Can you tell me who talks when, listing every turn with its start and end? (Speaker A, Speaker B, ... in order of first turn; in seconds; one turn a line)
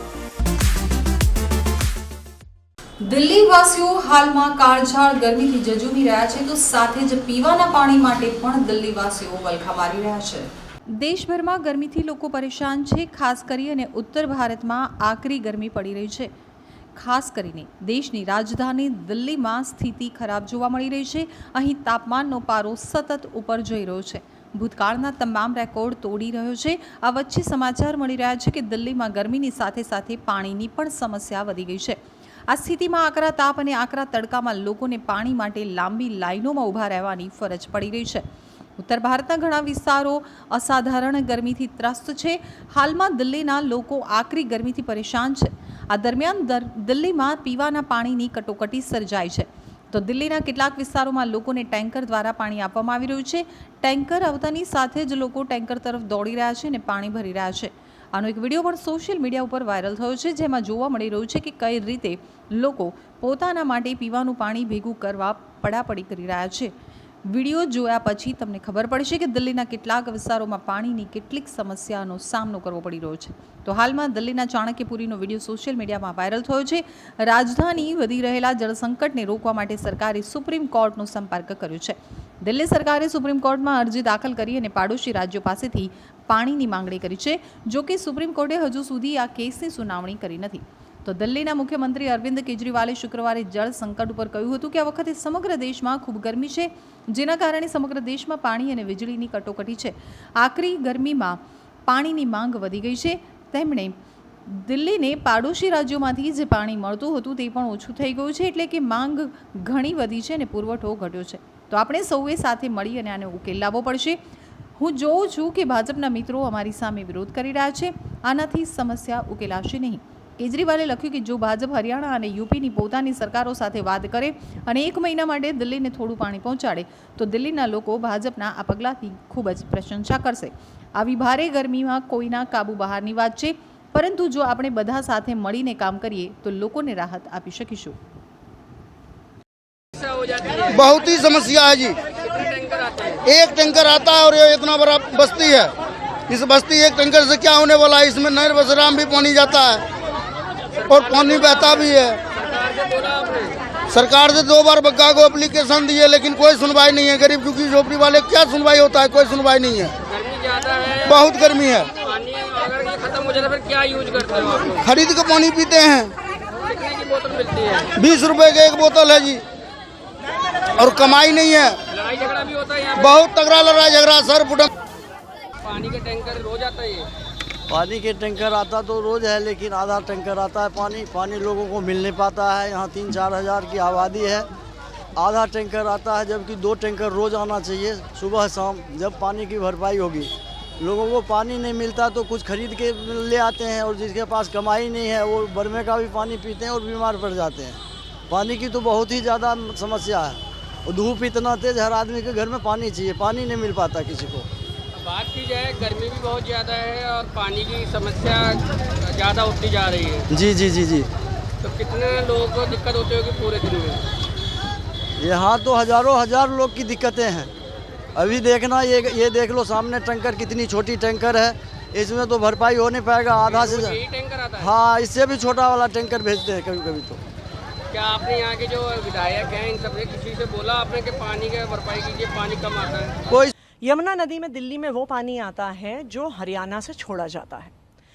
Speaker A: 3.0-16.3
Speaker A: 16.9-38.2
Speaker A: 38.8-66.7
Speaker A: 67.3-104.0
Speaker A: 104.5-114.2
Speaker A: 114.8-138.0
Speaker B: 139.9-140.9
Speaker C: 140.7-142.0
Speaker B: 142.2-143.2
Speaker C: 143.3-145.7
Speaker C: 146.3-149.8
Speaker B: 150.7-153.6
Speaker C: 150.9-152.2
Speaker C: 153.9-159.9
Speaker B: 160.1-161.2
Speaker C: 161.1-161.9
Speaker B: 161.9-164.9
Speaker C: 164.8-166.1
Speaker B: 166.7-167.9
Speaker C: 168.0-169.4
Speaker C: 170.8-171.8
Speaker B: 171.9-173.3
Speaker C: 173.0-174.7
Speaker B: 175.6-177.1
Speaker D: 177.7-184.5
Speaker D: 185.2-204.5
Speaker B: 204.9-210.3
Speaker D: 210.3-211.1
Speaker B: 211.6-214.0
Speaker D: 215.2-217.5
Speaker D: 218.2-224.0
Speaker B: 223.5-224.7
Speaker D: 224.6-227.2
Speaker B: 227.9-233.2
Speaker E: 233.8-237.7